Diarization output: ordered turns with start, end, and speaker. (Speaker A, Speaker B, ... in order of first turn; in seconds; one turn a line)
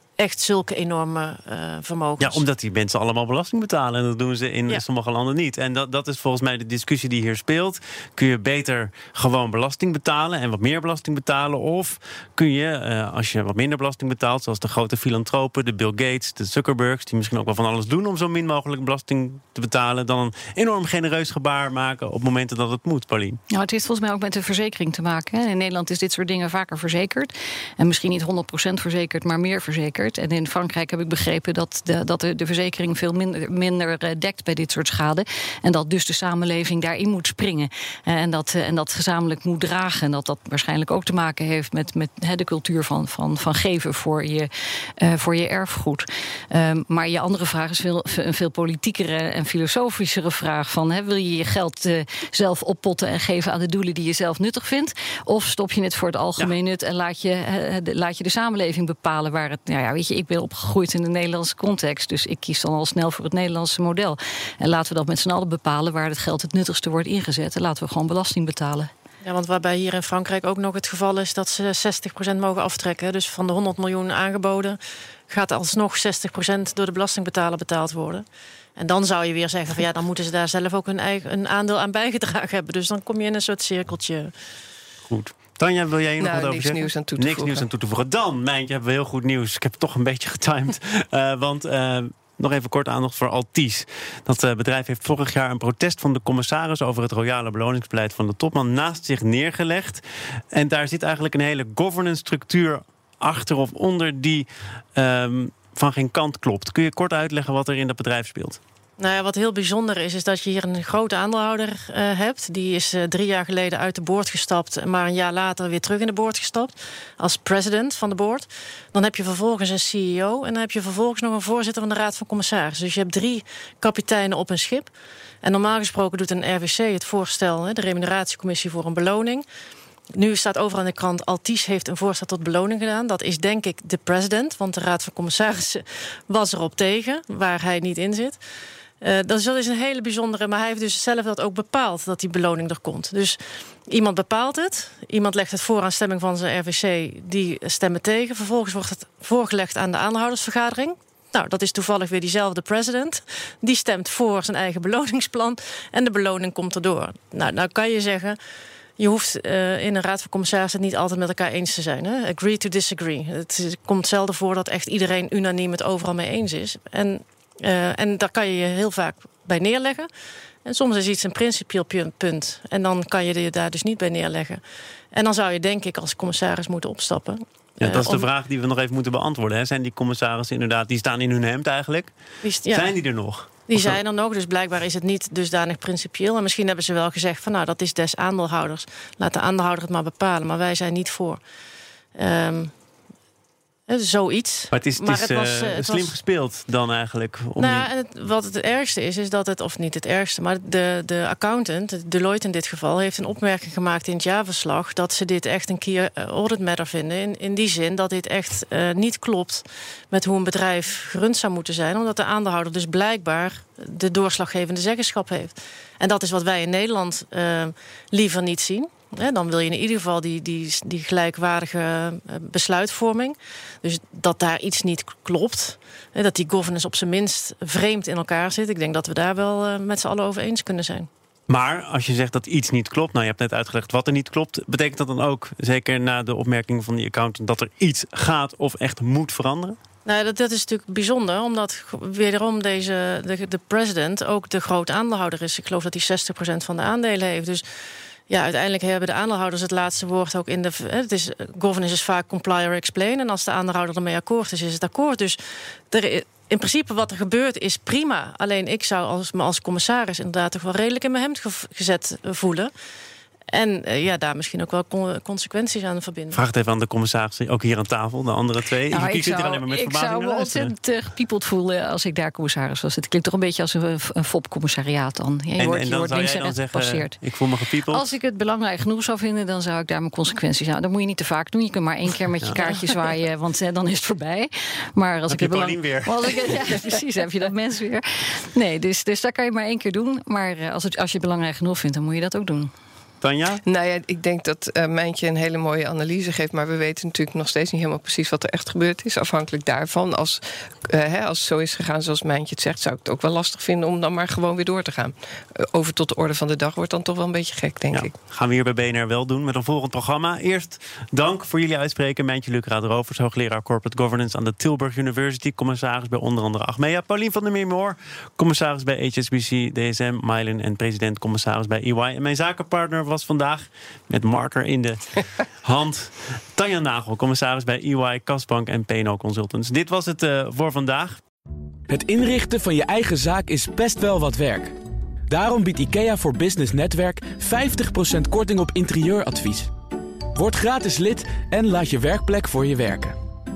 Speaker A: 0.2-2.4
Speaker B: 2.2-23.4
Speaker C: 23.5-68.9
Speaker A: 69.2-78.2
Speaker A: 78.8-84.3
Speaker B: 85.1-108.6
Speaker D: 86.2-87.7
Speaker A: 109.0-124.9
Speaker A: 125.4-129.5
Speaker A: 130.1-138.4
Speaker A: 139.0-158.4
Speaker A: 159.0-170.1
Speaker A: 170.7-174.6
Speaker A: 175.1-178.3
Speaker B: 177.8-182.1
Speaker A: 182.4-182.9
Speaker B: 182.7-184.0
Speaker A: 183.7-191.4
Speaker A: 192.2-192.7
Speaker A: 193.9-196.2
Speaker B: 194.7-197.9
Speaker A: 197.6-231.1
Speaker B: 231.5-239.8
Speaker A: 240.1-247.6
Speaker A: 248.3-262.7
Speaker A: 263.5-266.4
Speaker B: 266.3-270.7
Speaker C: 268.9-277.2
Speaker B: 275.6-278.1
Speaker C: 277.9-292.7
Speaker B: 282.4-282.7
Speaker B: 285.3-286.2
Speaker B: 293.2-293.6
Speaker D: 293.6-308.1
Speaker B: 307.9-331.2
Speaker E: 331.9-334.7
Speaker E: 335.3-339.7
Speaker E: 340.4-343.2